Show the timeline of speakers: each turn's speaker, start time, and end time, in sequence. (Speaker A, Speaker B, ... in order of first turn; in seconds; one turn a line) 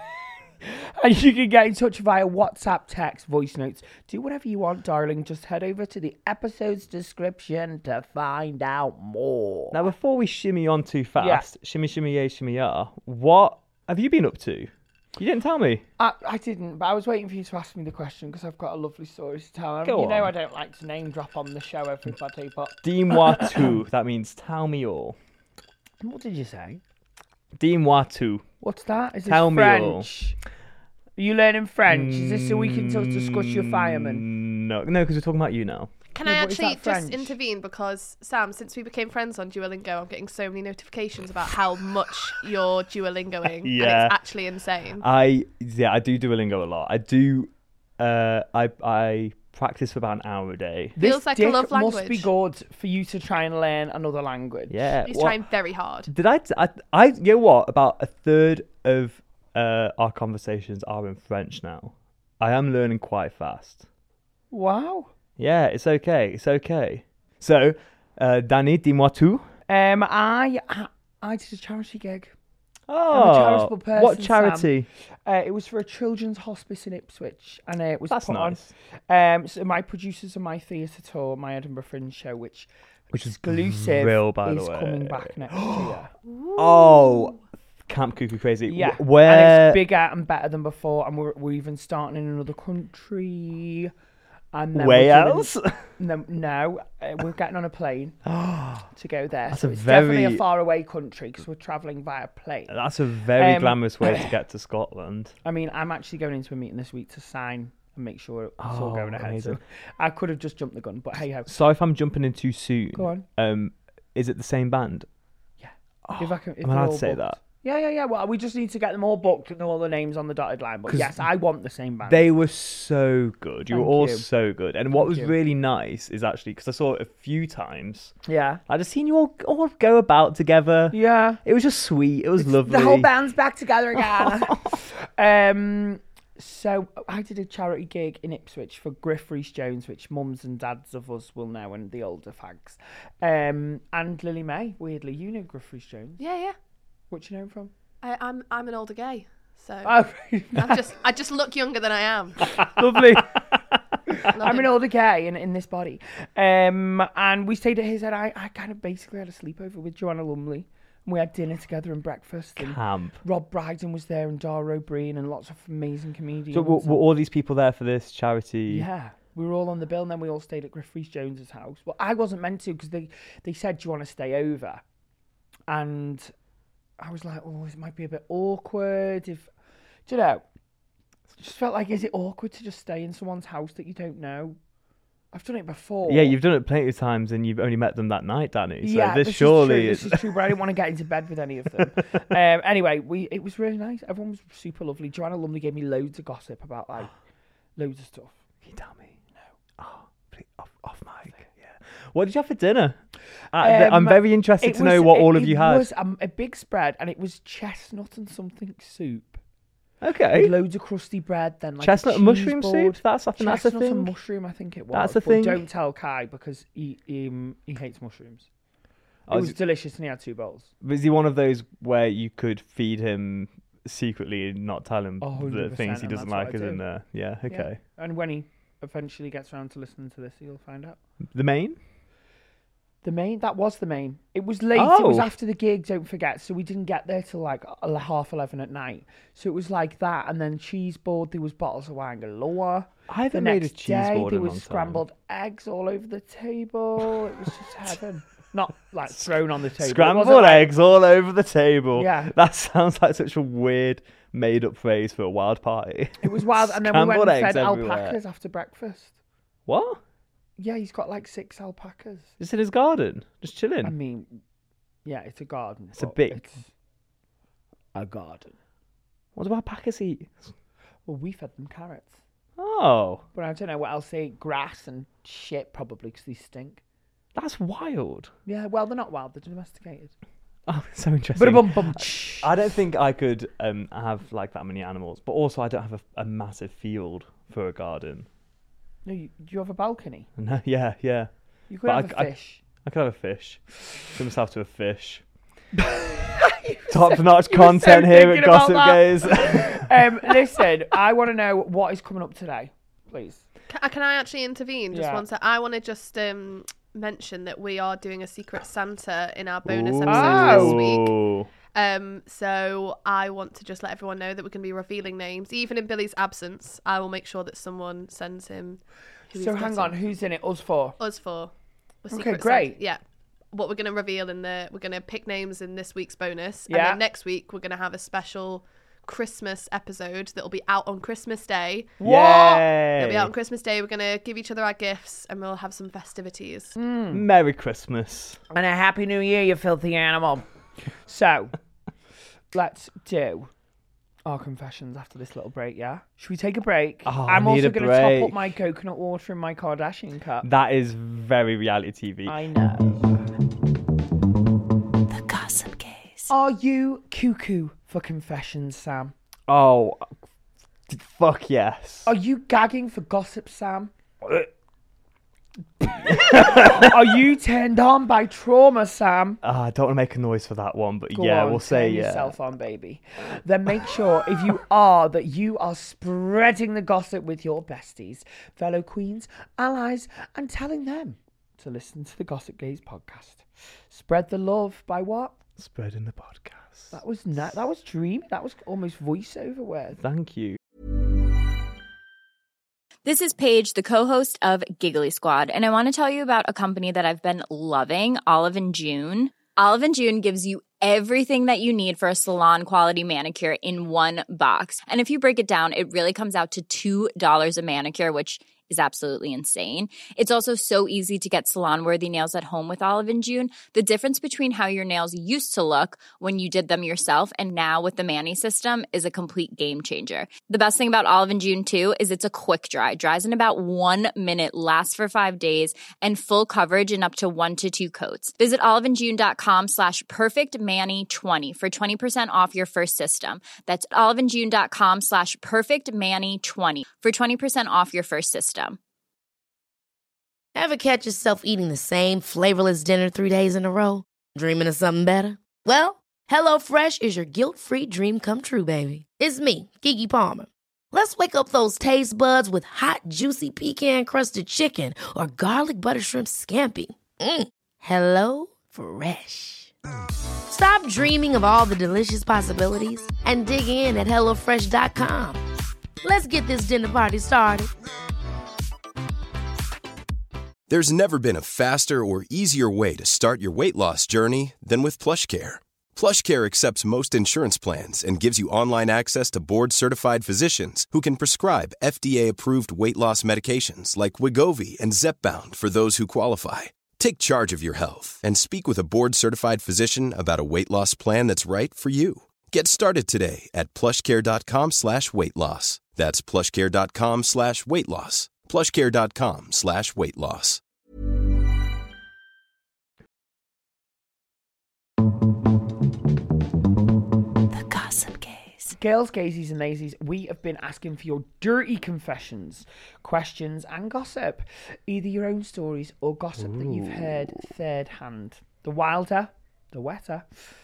Speaker A: 0.6-9.8
Speaker B: 9.7-15.8
Speaker A: 11.2-11.5
Speaker A: 16.0-23.7
Speaker B: 19.9-20.3
Speaker B: 22.8-25.2
Speaker A: 26.0-26.8
Speaker B: 27.6-28.4
Speaker A: 28.6-30.4
Speaker B: 29.3-30.1
Speaker A: 31.2-34.2
Speaker B: 31.9-35.9
Speaker C: 36.1-45.0
Speaker A: 36.2-37.4
Speaker B: 43.6-44.2
Speaker B: 45.0-51.0
Speaker A: 51.0-54.9
Speaker C: 51.0-52.3
Speaker B: 54.7-55.4
Speaker C: 55.0-56.1
Speaker B: 56.1-63.9
Speaker A: 64.5-65.1
Speaker B: 65.4-69.5
Speaker A: 69.7-72.3
Speaker B: 72.9-74.9
Speaker A: 73.1-74.7
Speaker A: 75.3-86.1
Speaker B: 78.1-78.7
Speaker B: 83.1-86.0
Speaker B: 86.6-89.8
Speaker A: 88.7-93.9
Speaker A: 94.5-98.2
Speaker B: 94.8-95.8
Speaker B: 98.3-98.9
Speaker A: 98.9-102.7
Speaker B: 99.5-100.4
Speaker B: 102.7-105.3
Speaker A: 103.4-104.3
Speaker A: 105.4-111.5
Speaker B: 108.6-109.6
Speaker B: 111.5-115.1
Speaker A: 113.0-113.2
Speaker A: 115.6-122.2
Speaker B: 116.0-117.4
Speaker B: 120.9-121.2
Speaker B: 122.1-128.2
Speaker A: 123.7-124.3
Speaker A: 125.0-125.3
Speaker A: 128.3-128.6
Speaker B: 128.7-133.1
Speaker A: 130.9-131.4
Speaker A: 132.4-146.2
Speaker B: 134.0-134.7
Speaker C: 146.2-146.6
Speaker A: 147.1-147.7
Speaker C: 148.0-149.9
Speaker A: 149.8-150.8
Speaker C: 150.5-152.7
Speaker A: 152.6-153.4
Speaker A: 154.2-167.0
Speaker C: 154.3-154.7
Speaker B: 162.6-163.2
Speaker B: 166.5-168.9
Speaker A: 168.7-174.8
Speaker A: 175.7-176.3
Speaker A: 177.0-179.5
Speaker A: 180.1-180.4
Speaker A: 181.4-184.6
Speaker A: 185.3-186.4
Speaker B: 186.1-190.4
Speaker A: 188.8-197.1
Speaker A: 197.8-198.3
Speaker B: 198.6-199.2
Speaker B: 199.8-203.0
Speaker B: 203.5-205.9
Speaker A: 203.6-209.4
Speaker B: 210.0-210.5
Speaker A: 210.3-218.5
Speaker B: 211.8-214.1
Speaker B: 214.9-215.6
Speaker B: 219.3-219.6
Speaker A: 219.3-220.7
Speaker B: 220.8-227.8
Speaker A: 225.2-226.8
Speaker A: 227.5-231.0
Speaker B: 231.3-231.8
Speaker A: 233.0-250.7
Speaker B: 234.8-235.3
Speaker B: 243.1-245.0
Speaker B: 249.2-258.2
Speaker A: 252.0-252.3
Speaker A: 256.2-259.1
Speaker B: 259.7-260.0
Speaker A: 260.6-262.3
Speaker B: 262.4-263.9
Speaker A: 263.8-264.4
Speaker A: 265.1-266.7
Speaker B: 266.0-266.5
Speaker A: 267.9-268.5
Speaker B: 269.4-270.5
Speaker A: 271.1-272.2
Speaker B: 272.6-273.2
Speaker A: 273.4-276.8
Speaker B: 277.4-278.3
Speaker A: 278.5-280.1
Speaker B: 280.7-288.3
Speaker A: 281.4-282.5
Speaker A: 289.1-290.3
Speaker B: 290.4-291.3
Speaker A: 291.7-292.6
Speaker B: 291.8-292.3
Speaker B: 292.8-295.2
Speaker A: 295.8-303.4
Speaker B: 296.9-300.3
Speaker C: 303.7-311.2
Speaker A: 304.9-305.2
Speaker B: 309.6-311.5
Speaker A: 310.1-310.8
Speaker C: 311.7-320.0
Speaker A: 319.4-321.0
Speaker C: 321.0-321.5
Speaker C: 322.0-323.0
Speaker A: 322.1-322.8
Speaker C: 323.5-331.9
Speaker A: 326.7-327.0
Speaker A: 332.0-332.7
Speaker B: 332.0-333.3
Speaker C: 333.0-336.7
Speaker A: 336.8-337.2
Speaker B: 337.1-338.4
Speaker A: 338.5-340.4
Speaker A: 341.1-341.6
Speaker A: 342.5-343.5
Speaker A: 344.2-350.5
Speaker B: 347.1-348.5
Speaker B: 350.4-352.5
Speaker A: 352.3-353.2
Speaker D: 355.1-356.3
Speaker A: 356.3-359.1
Speaker B: 359.5-360.1
Speaker B: 360.9-362.1
Speaker A: 362.1-363.9
Speaker A: 365.9-369.4
Speaker B: 366.1-366.9
Speaker B: 369.4-372.4
Speaker A: 371.1-385.4
Speaker B: 385.6-386.9
Speaker A: 386.9-390.0
Speaker B: 390.0-390.6
Speaker E: 393.1-438.8
Speaker F: 440.6-459.7
Speaker F: 460.5-465.4
Speaker F: 466.0-467.7
Speaker G: 470.7-500.6
Speaker D: 507.5-508.8
Speaker A: 508.7-520.3
Speaker B: 516.4-517.3